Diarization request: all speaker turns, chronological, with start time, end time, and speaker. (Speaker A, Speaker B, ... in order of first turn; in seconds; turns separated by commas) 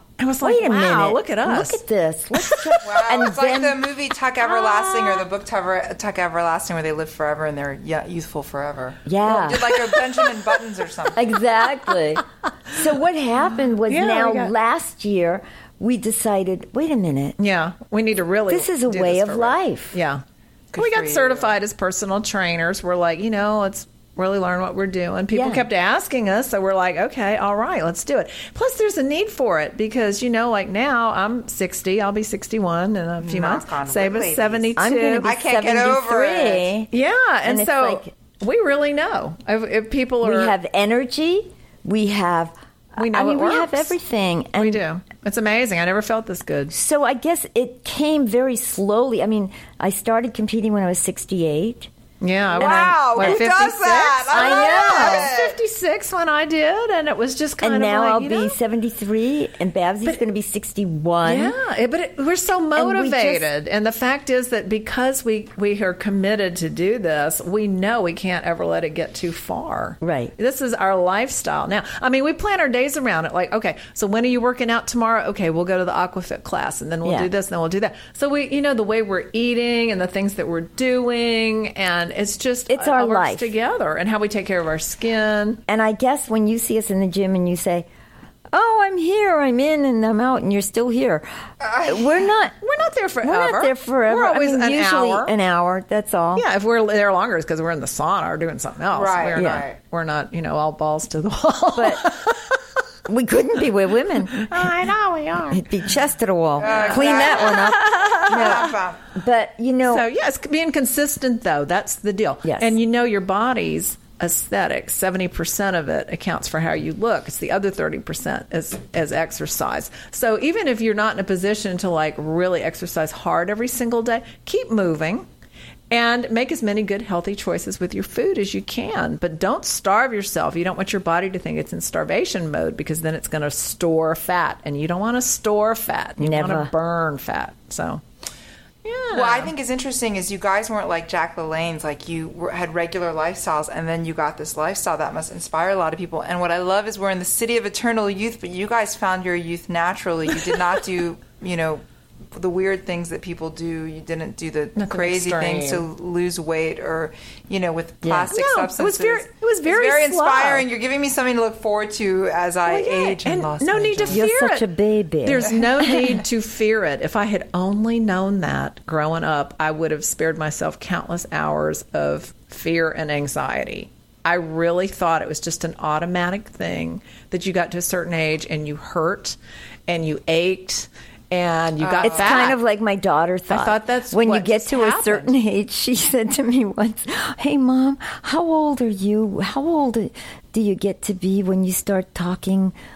Speaker A: 0.2-1.8, Speaker B: 0.4-3.8, Speaker A: 2.4-2.8, Speaker C: 2.8-11.3, Speaker A: 4.7-5.2, Speaker B: 9.1-9.9, Speaker B: 11.1-17.4, Speaker A: 13.9-14.5, Speaker A: 17.4-20.2, Speaker B: 18.5-20.0, Speaker C: 20.7-21.5, Speaker A: 20.8-35.3, Speaker B: 25.3-25.7, Speaker C: 33.2-36.7, Speaker B: 34.8-36.9, Speaker A: 36.9-40.5, Speaker B: 37.4-38.1, Speaker B: 40.2-44.8, Speaker A: 43.0-44.0, Speaker A: 44.6-46.7, Speaker B: 46.7-51.9, Speaker A: 52.2-58.5, Speaker C: 52.6-55.6, Speaker B: 52.6-53.5, Speaker B: 54.3-55.3, Speaker B: 57.6-61.6, Speaker A: 61.2-85.6, Speaker B: 62.8-63.5, Speaker B: 70.0-70.3, Speaker B: 77.0-77.3, Speaker B: 82.7-83.5, Speaker B: 85.7-87.9, Speaker B: 88.5-91.3, Speaker C: 91.6-92.3, Speaker B: 91.9-92.5, Speaker A: 92.6-95.3, Speaker B: 93.2-96.5, Speaker A: 96.4-102.6, Speaker C: 98.9-99.8, Speaker B: 99.4-99.6, Speaker B: 101.8-102.1, Speaker B: 103.1-104.7, Speaker A: 104.3-105.7, Speaker B: 105.5-110.0, Speaker C: 106.6-109.1, Speaker A: 106.7-108.7, Speaker A: 109.9-125.3, Speaker B: 112.4-112.8, Speaker A: 125.9-138.0, Speaker B: 136.2-136.7, Speaker A: 138.8-139.5, Speaker C: 139.1-151.8, Speaker C: 152.3-164.2, Speaker A: 154.8-155.8, Speaker B: 158.0-158.3, Speaker A: 158.3-160.7, Speaker A: 162.7-164.7, Speaker B: 164.1-166.2, Speaker A: 165.2-182.6, Speaker C: 181.8-182.5, Speaker B: 182.0-192.8, Speaker A: 183.5-185.3